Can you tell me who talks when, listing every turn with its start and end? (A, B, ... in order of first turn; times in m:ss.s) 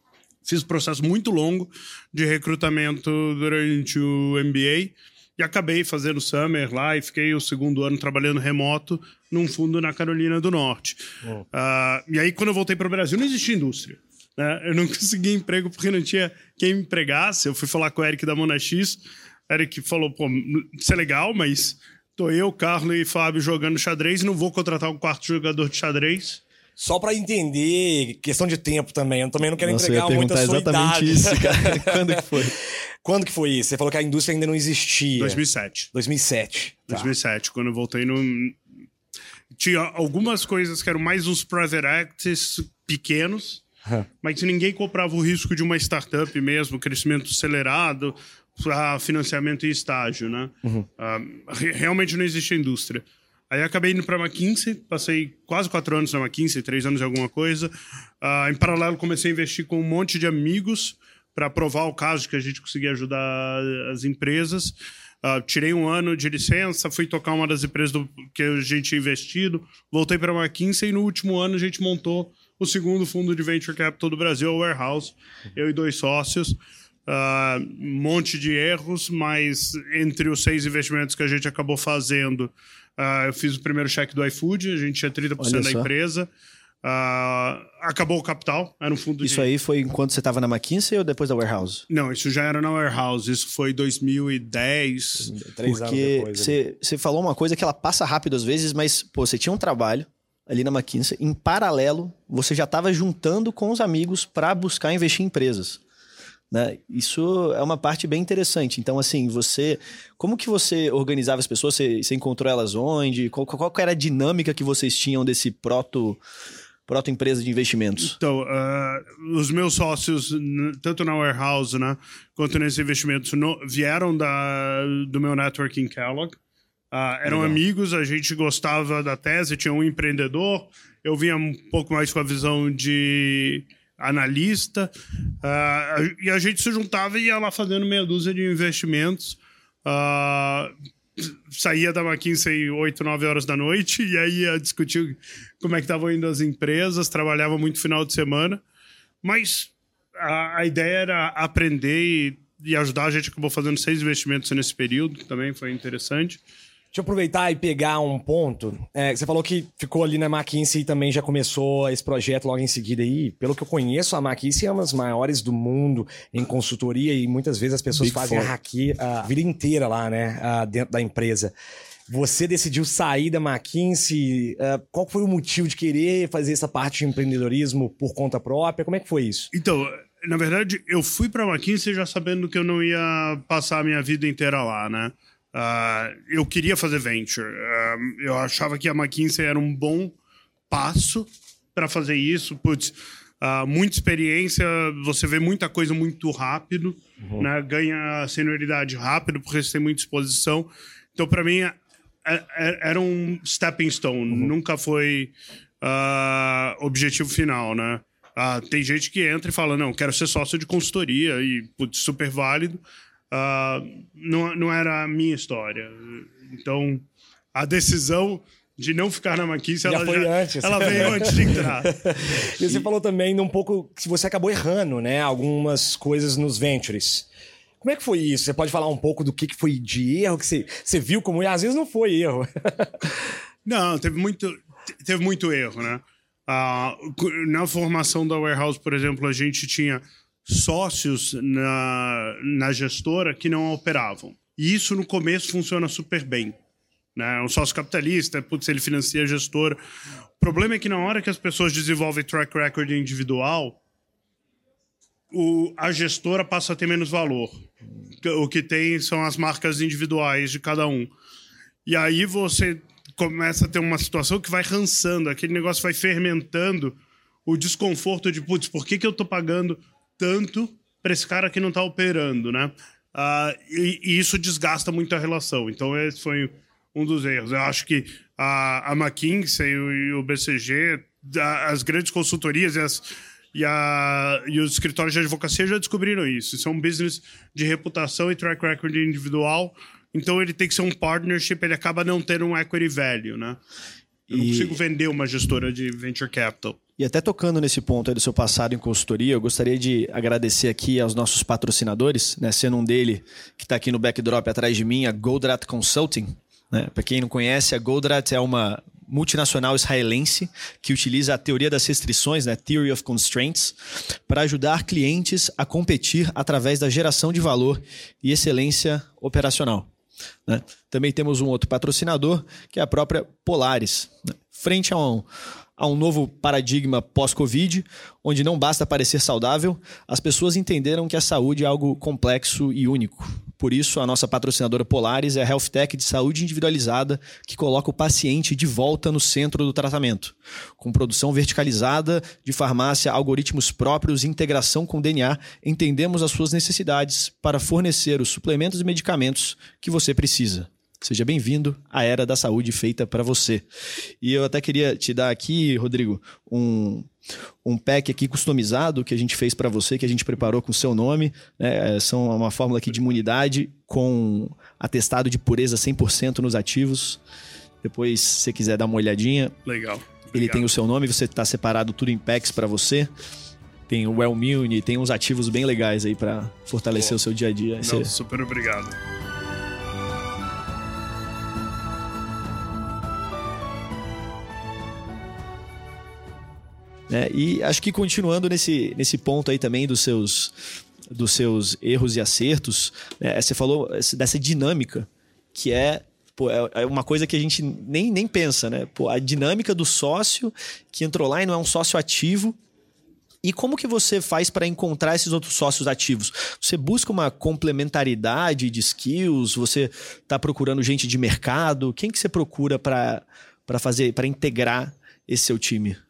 0:00.4-0:11.0 A
0:11.5-0:26.4 A
0:26.8-0:32.5 B
0:29.6-0:32.6 C
0:33.0-0:35.4 B
0:35.2-0:35.9 A
0:35.9-0:37.1 B
0:36.9-0:38.6 A
0:39.6-0:43.6 A
0:44.2-0:57.7 A
0:58.2-1:16.6 A
1:17.1-1:26.3 A
1:25.4-1:25.9 C
1:26.8-1:29.5 A
1:29.2-1:31.8 C
1:31.9-1:35.3 A
1:35.2-1:36.5 B
1:35.6-1:45.8 C
1:46.5-1:56.2 C
1:56.9-1:58.2 C
1:58.0-2:06.4 A
2:06.9-2:14.9 A
2:07.2-2:07.6 C
2:15.4-2:28.6 A
2:29.2-2:36.4 A
2:36.9-2:51.5 B
2:48.0-2:48.5 C
2:52.1-2:59.5 B
2:59.5-3:10.2 A
3:10.7-3:42.8 A
3:39.8-3:47.3 B
3:47.8-3:53.1 B
3:53.6-4:06.6 A
4:07.2-4:09.8 A
4:10.4-4:13.8 A
4:15.3-4:17.6 A
4:18.2-4:21.1 A
4:21.9-4:53.6 A
4:54.3-4:54.8 C
4:54.3-4:56.8 A
4:57.0-5:19.9 C
5:20.5-5:25.3 C
5:25.8-5:53.6 C
5:54.2-5:57.1 C
5:57.6-6:07.2 C
6:07.8-6:09.6 C
6:09.7-6:10.7 A
6:10.3-6:13.1 C
6:13.9-6:18.1 C
6:17.8-6:19.0 A
6:27.1-6:30.6 C
6:31.1-6:42.6 C
6:43.4-6:56.0 C